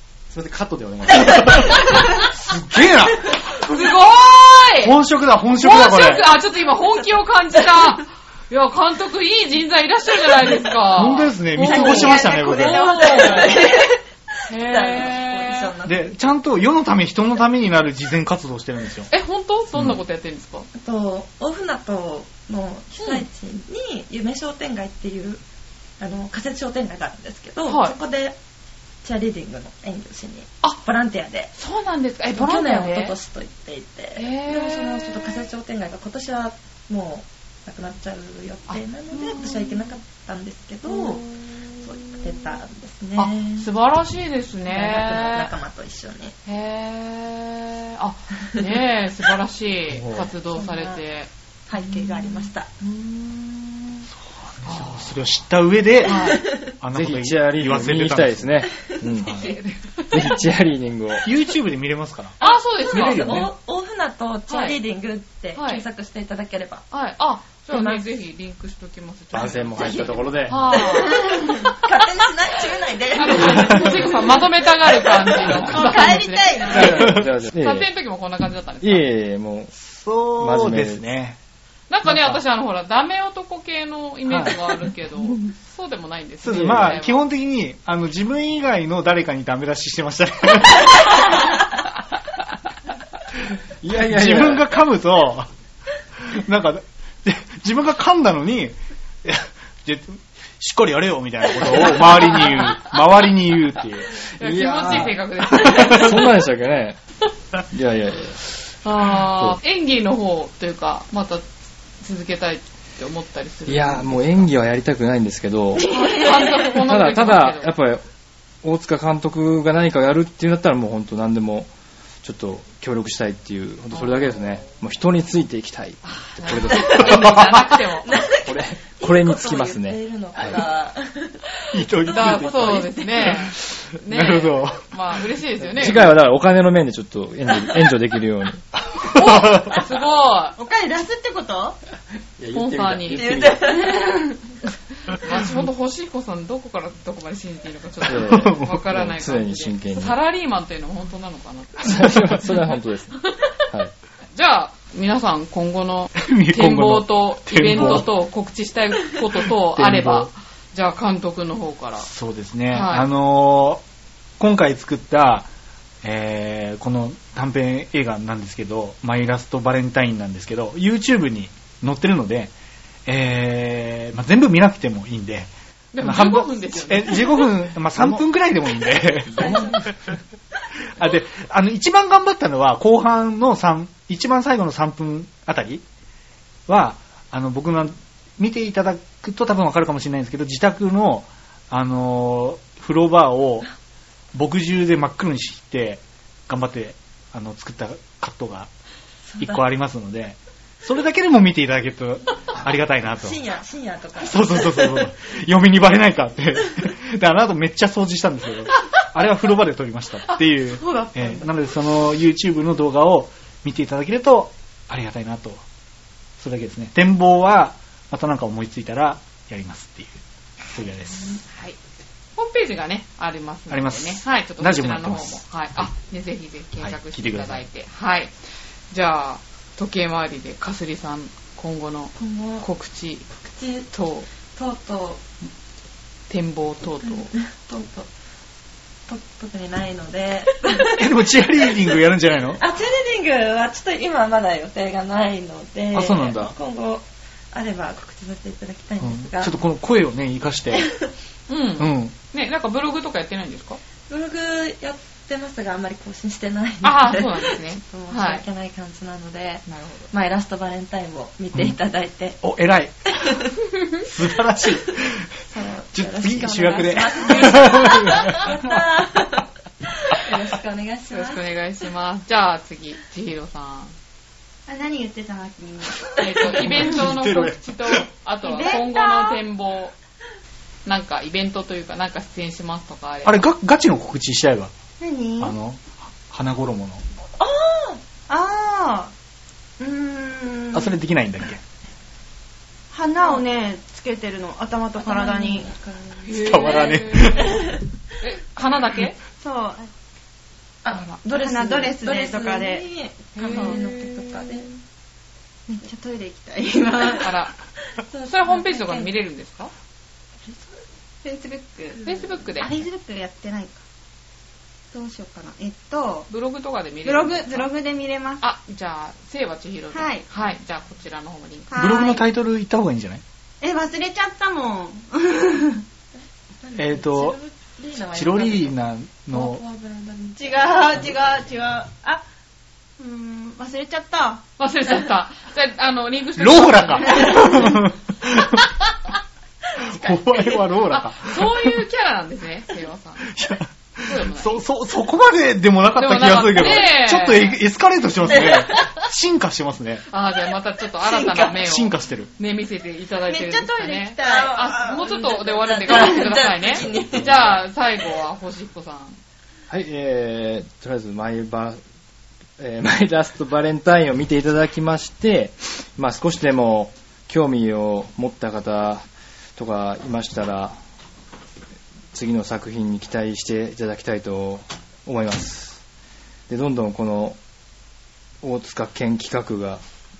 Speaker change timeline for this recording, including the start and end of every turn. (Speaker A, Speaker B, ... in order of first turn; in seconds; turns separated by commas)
Speaker A: 0.3-1.6, Speaker B: 1.0-2.1, Speaker C: 1.2-3.8, Speaker D: 3.5-5.0, Speaker C: 4.8-6.2, Speaker D: 5.6-13.6, Speaker B: 6.9-7.9, Speaker C: 10.9-13.0, Speaker B: 11.6-16.1, Speaker E: 12.2-13.7, Speaker D: 14.5-15.7, Speaker C: 15.8-19.1, Speaker D: 19.1-20.7, Speaker C: 19.7-20.0, Speaker B: 20.7-25.4, Speaker D: 23.0-23.2, Speaker B: 26.0-28.4, Speaker D: 27.6-27.9, Speaker B: 29.0-31.5, Speaker D: 31.6-33.1, Speaker B: 32.3-43.7, Speaker D: 34.1-35.4, Speaker D: 38.7-39.8, Speaker D: 40.9-41.5, Speaker D: 43.1-45.5, Speaker B: 44.7-46.3, Speaker D: 46.5-51.3, Speaker C: 49.9-50.3, Speaker B: 50.5-51.0, Speaker B: 51.7-52.7, Speaker D: 51.8-54.0, Speaker C: 54.5-58.6, Speaker D: 54.6-55.1, Speaker D: 56.0-56.5, Speaker B: 56.1-56.7, Speaker A: 56.9-59.5, Speaker C: 59.2-59.5, Speaker D: 59.4-60.3, Speaker A: 60.1-61.2, Speaker C: 61.2-62.4, Speaker D: 62.4-63.4, Speaker B: 62.4-66.9, Speaker C: 62.9-63.5, Speaker D: 64.5-64.8, Speaker D: 65.5-65.8, Speaker D: 66.9-72.0, Speaker B: 67.7-68.1, Speaker A: 69.3-70.6, Speaker B: 69.8-75.7, Speaker E: 71.0-71.6, Speaker D: 73.1-79.1, Speaker E: 75.7-77.1, Speaker A: 76.7-77.9, Speaker C: 76.8-77.3, Speaker A: 78.8-79.7, Speaker C: 79.8-81.4, Speaker A: 80.4-81.0, Speaker D: 81.9-87.2, Speaker C: 82.0-82.4, Speaker C: 84.3-84.5, Speaker C: 86.4-91.2, Speaker A: 86.5-87.0, Speaker A: 93.8-94.7, Speaker C: 94.0-95.5, Speaker C: 96.2-104.1, Speaker D: 102.2-102.7, Speaker D: 104.4-106.4, Speaker A: 104.4-107.0, Speaker C: 105.6-105.9, Speaker A: 107.7-108.4, Speaker D: 108.8-111.5, Speaker D: 112.0-114.5, Speaker A: 113.7-115.8, Speaker D: 115.9-117.7, Speaker B: 116.0-116.7, Speaker A: 116.7-118.0, Speaker A: 118.6-121.7, Speaker A: 122.2-127.6, Speaker D: 123.9-124.4, Speaker D: 126.0-128.1, Speaker B: 126.9-127.3, Speaker B: 128.0-131.4, Speaker A: 128.3-130.6, Speaker C: 131.7-134.9, Speaker B: 132.0-133.4, Speaker D: 132.1-136.2, Speaker A: 135.7-138.6, Speaker C: 138.9-139.8, Speaker D: 139.0-140.6, Speaker E: 140.6-141.8, Speaker A: 142.4-143.9, Speaker D: 142.5-143.4, Speaker B: 143.1-144.4, Speaker D: 145.1-152.8, Speaker A: 148.1-150.2, Speaker C: 148.3-148.9, Speaker A: 151.8-153.9, Speaker C: 151.8-152.4, Speaker D: 154.3-162.1, Speaker C: 156.2-158.1, Speaker A: 157.8-158.0, Speaker C: 159.7-160.3, Speaker C: 162.1-163.8, Speaker D: 162.7-163.1, Speaker C: 164.4-165.5, Speaker C: 166.0-172.5, Speaker C: 173.1-179.9, Speaker D: 175.9-177.6, Speaker A: 179.3-179.9, Speaker D: 179.4-179.7, Speaker C: 181.0-185.8, Speaker C: 186.7-193.7, Speaker C: 194.3-198.7, Speaker B: 199.3-199.6, Speaker C: 199.4-203.4, Speaker B: 203.2-205.1, Speaker C: 204.2-215.6, Speaker B: 210.7-211.5, Speaker C: 216.4-221.4, Speaker D: 221.5-221.8, Speaker D: 222.3-228.3, Speaker C: 223.7-225.8, Speaker C: 226.8-227.6, Speaker D: 228.9-233.2, Speaker B: 232.2-232.7, Speaker B: 233.4-233.9, Speaker D: 233.9-234.2, Speaker B: 234.5-235.2, Speaker D: 236.3-237.3, Speaker B: 237.1-238.1, Speaker B: 239.1-241.1, Speaker C: 240.9-242.6, Speaker B: 242.6-249.5, Speaker C: 245.9-246.6, Speaker C: 249.0-250.9, Speaker B: 250.7-251.1, Speaker D: 251.5-253.8, Speaker C: 251.8-252.1, Speaker B: 254.1-262.4, Speaker D: 256.8-258.4, Speaker D: 259.7-260.1, Speaker C: 262.4-263.4, Speaker B: 263.2-263.5, Speaker C: 264.0-265.2, Speaker B: 265.5-269.5, Speaker C: 265.9-268.4, Speaker D: 267.4-268.4, Speaker B: 270.0-271.4, Speaker D: 271.1-273.9, Speaker E: 274.7-276.3, Speaker D: 276.2-279.9, Speaker C: 276.4-278.1, Speaker E: 278.4-279.4, Speaker D: 280.9-283.4, Speaker C: 283.2-284.7, Speaker E: 285.0-285.5, Speaker C: 285.4-287.0, Speaker B: 287.4-288.0, Speaker E: 288.3-289.1, Speaker E: 289.8-290.9, Speaker C: 290.7-291.6, Speaker E: 292.9-295.7, Speaker B: 294.9-296.9, Speaker D: 296.2-297.6, Speaker C: 296.3-297.8, Speaker D: 298.2-299.2, Speaker E: 299.4-299.9, Speaker B: 300.8-304.8, Speaker E: 301.3-302.8, Speaker D: 303.3-304.5, Speaker E: 303.5-303.8, Speaker E: 305.7-307.3, Speaker D: 307.2-307.5, Speaker B: 308.0-309.1, Speaker D: 308.2-309.7, Speaker B: 310.5-310.7, Speaker E: 311.2-312.0, Speaker D: 312.0-312.8, Speaker E: 312.6-313.8, Speaker E: 314.9-316.3, Speaker D: 316.3-317.7, Speaker E: 317.0-318.4, Speaker D: 318.4-321.7, Speaker E: 319.9-320.2, Speaker E: 321.7-322.2, Speaker C: 321.7-323.2, Speaker E: 323.6-325.8, Speaker B: 326.6-328.8, Speaker C: 326.8-327.4, Speaker C: 328.1-329.6, Speaker B: 329.3-331.4, Speaker E: 330.4-332.2, Speaker E: 333.0-334.4, Speaker D: 334.6-337.8, Speaker C: 336.4-338.7, Speaker C: 339.8-341.7, Speaker D: 340.9-343.4, Speaker C: 343.3-350.0, Speaker D: 344.0-344.6, Speaker D: 345.9-347.6, Speaker D: 350.1-359.2, Speaker B: 351.0-351.5, Speaker C: 351.6-352.3, Speaker E: 353.3-355.1, Speaker B: 354.2-357.6, Speaker A: 359.7-361.8, Speaker A: 362.6-370.8, Speaker A: 372.1-375.8, Speaker A: 376.5-377.4, Speaker A: 378.4-379.8